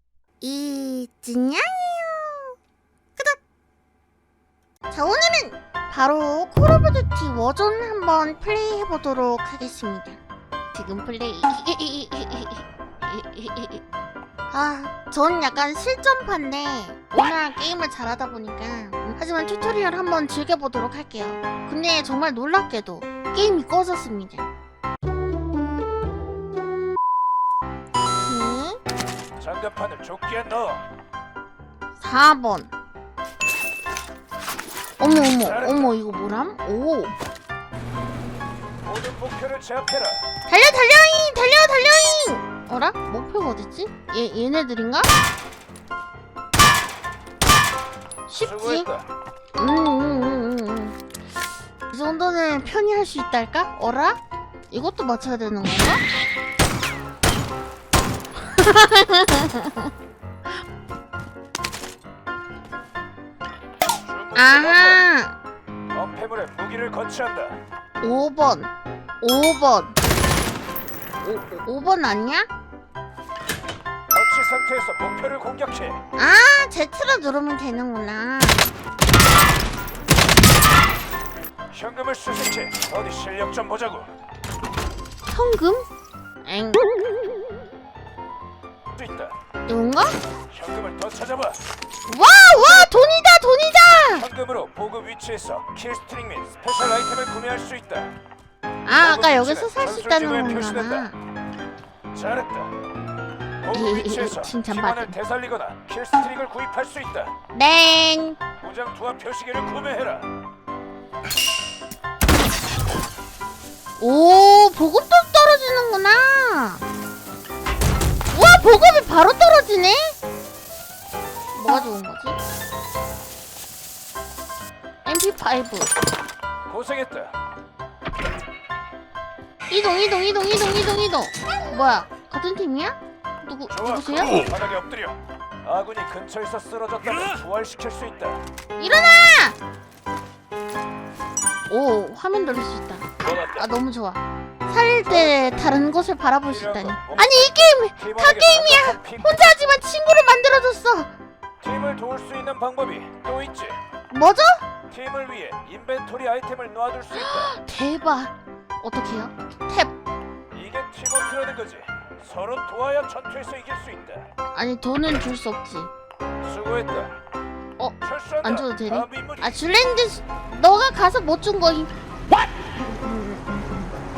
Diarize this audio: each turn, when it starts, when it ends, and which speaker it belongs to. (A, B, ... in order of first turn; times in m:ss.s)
0:00.4-0:02.6 A
0:04.9-0:10.2 A
0:10.7-0:13.8 A
0:14.5-0:24.5 A
0:28.2-0:28.8 A
0:29.4-0:30.8 B
0:32.0-0:32.7 A
0:35.0-0:37.2 A
0:35.4-0:36.0 B
0:38.8-0:40.2 B
0:40.5-0:45.1 A
0:48.3-0:48.9 A
0:48.4-0:49.1 B
0:49.6-0:51.0 A
0:51.9-0:54.2 A
0:54.7-0:56.0 A
0:58.4-0:59.9 A
1:04.0-1:05.0 B
1:04.4-1:05.4 A
1:05.9-1:07.6 B
1:08.0-1:08.7 A
1:09.2-1:10.0 A
1:11.2-1:12.5 A
1:14.1-1:16.0 B
1:16.2-1:18.6 A
1:21.7-1:24.1 B
1:25.3-1:25.9 A
1:26.4-1:27.0 A
1:29.0-1:29.4 B
1:29.7-1:30.2 A
1:30.5-1:31.6 B
1:32.1-1:34.3 A
1:32.6-1:32.9 B
1:34.1-1:38.1 B
1:38.8-1:41.2 A
1:39.0-1:41.1 B
1:42.1-1:42.7 B
1:43.6-1:47.3 B
1:43.7-1:45.2 A
1:47.5-1:48.4 A
1:48.6-1:50.3 B
1:54.0-1:56.8 A
1:58.3-2:00.2 A
2:01.5-2:02.4 A
2:05.0-2:05.9 A
2:06.7-2:07.4 B
2:09.7-2:14.4 A
2:13.7-2:18.4 B
2:18.8-2:19.6 A
2:21.7-2:31.1 A
2:23.2-2:23.7 B
2:25.1-2:25.6 B
2:26.5-2:29.4 B
2:31.6-2:33.8 B
2:34.1-2:34.6 A
2:34.9-2:37.5 B
2:37.1-2:39.9 A
2:40.5-2:44.3 B
2:44.5-2:45.9 A
2:46.4-2:47.1 B
2:47.8-2:51.9 A
2:48.0-2:49.6 B
2:52.8-2:53.7 A